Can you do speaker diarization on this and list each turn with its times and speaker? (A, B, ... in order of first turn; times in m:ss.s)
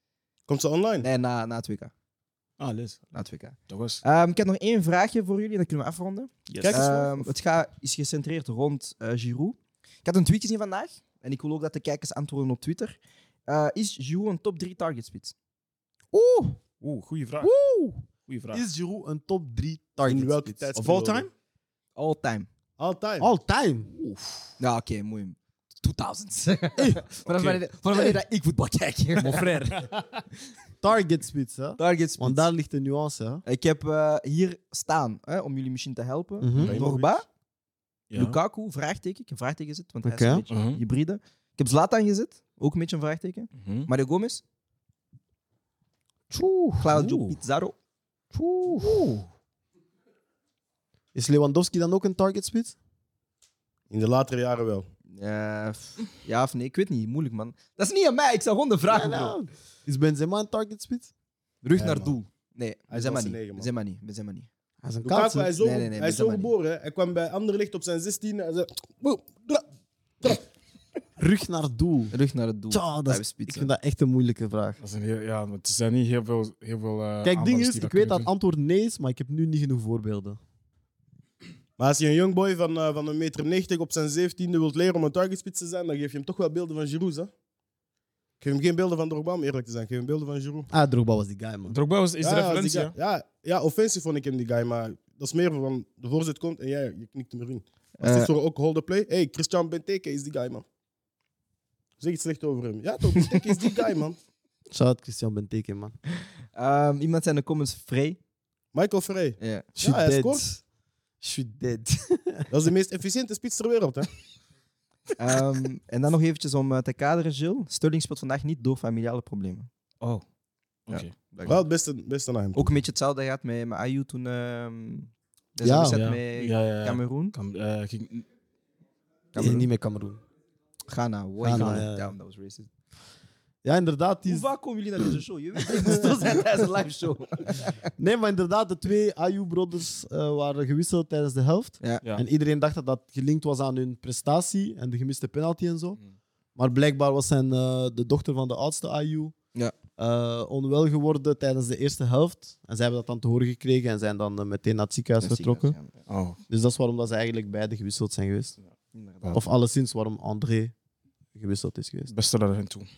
0:00.5-0:01.1 A
0:01.0-0:01.9 B
0:02.6-0:03.0 C
0:03.1-0:15.3 B
0:03.7-0:04.0 C
0:06.5-0:07.0 C
0:06.6-0:07.1 A
0:16.1-0:16.6 D
0:16.8-0:17.5 C
0:17.4-0:20.7 D
0:18.3-0:18.6 C
0:20.0-0:21.3 A
0:20.7-0:21.3 C
0:22.0-0:22.5 B
0:22.8-0:23.3 A
0:23.2-0:23.9 D
0:24.0-0:24.4 C
0:24.6-0:29.8 B
0:26.8-0:27.0 D
0:27.2-0:27.6 C
0:29.3-0:29.7 D
0:30.8-0:33.4 D
0:31.8-0:32.5 B
0:33.4-0:37.2 B
0:36.4-0:37.0 D
0:36.6-0:36.9 C
0:38.1-0:38.4 C
0:38.1-0:44.4 B
0:40.0-0:40.4 D
0:40.5-0:40.8 C
0:43.6-0:43.9 C
0:46.3-0:47.2 D
0:46.8-0:47.7 B
0:48.3-0:49.0 D
0:51.1-0:52.8 D
0:53.9-0:54.9 A
0:55.1-0:59.4 B
0:58.9-1:01.1 D
1:01.6-1:04.5 B
1:01.8-1:02.1 D
1:02.9-1:03.7 A
1:04.8-1:05.6 D
1:05.0-1:09.6 A
1:05.6-1:06.5 B
1:11.2-1:12.1 D
1:12.1-1:13.7 B
1:12.7-1:14.8 D
1:14.8-1:18.3 C
1:17.2-1:20.4 D
1:21.8-1:27.3 A
1:28.4-1:30.7 A
1:30.7-1:31.8 D
1:31.7-1:32.9 C
1:32.2-1:40.6 A
1:38.0-1:38.3 B
1:42.0-1:44.2 A
1:44.7-1:45.9 D
1:46.5-1:48.2 B
1:48.7-1:50.4 A
1:49.4-1:49.6 B
1:49.8-1:50.6 D
1:51.2-1:52.5 D
1:52.5-1:54.1 A
1:55.2-1:59.7 B
2:00.9-2:01.6 B
2:01.4-2:02.8 A
2:02.5-2:07.3 B
2:05.6-2:06.0 D
2:05.9-2:08.2 C
2:09.3-2:09.7 B
2:09.4-2:10.2 D
2:10.9-2:12.7 B
2:11.4-2:12.1 D
2:13.6-2:14.4 D
2:14.3-2:17.8 B
2:15.7-2:16.4 D
2:18.0-2:26.0 D
2:26.6-2:29.3 D
2:30.0-2:35.8 D
2:35.2-2:35.9 B
2:36.1-2:36.4 C
2:36.5-2:38.5 D
2:38.9-2:39.4 B
2:39.3-2:40.7 D
2:41.3-2:42.1 D
2:42.1-2:42.9 C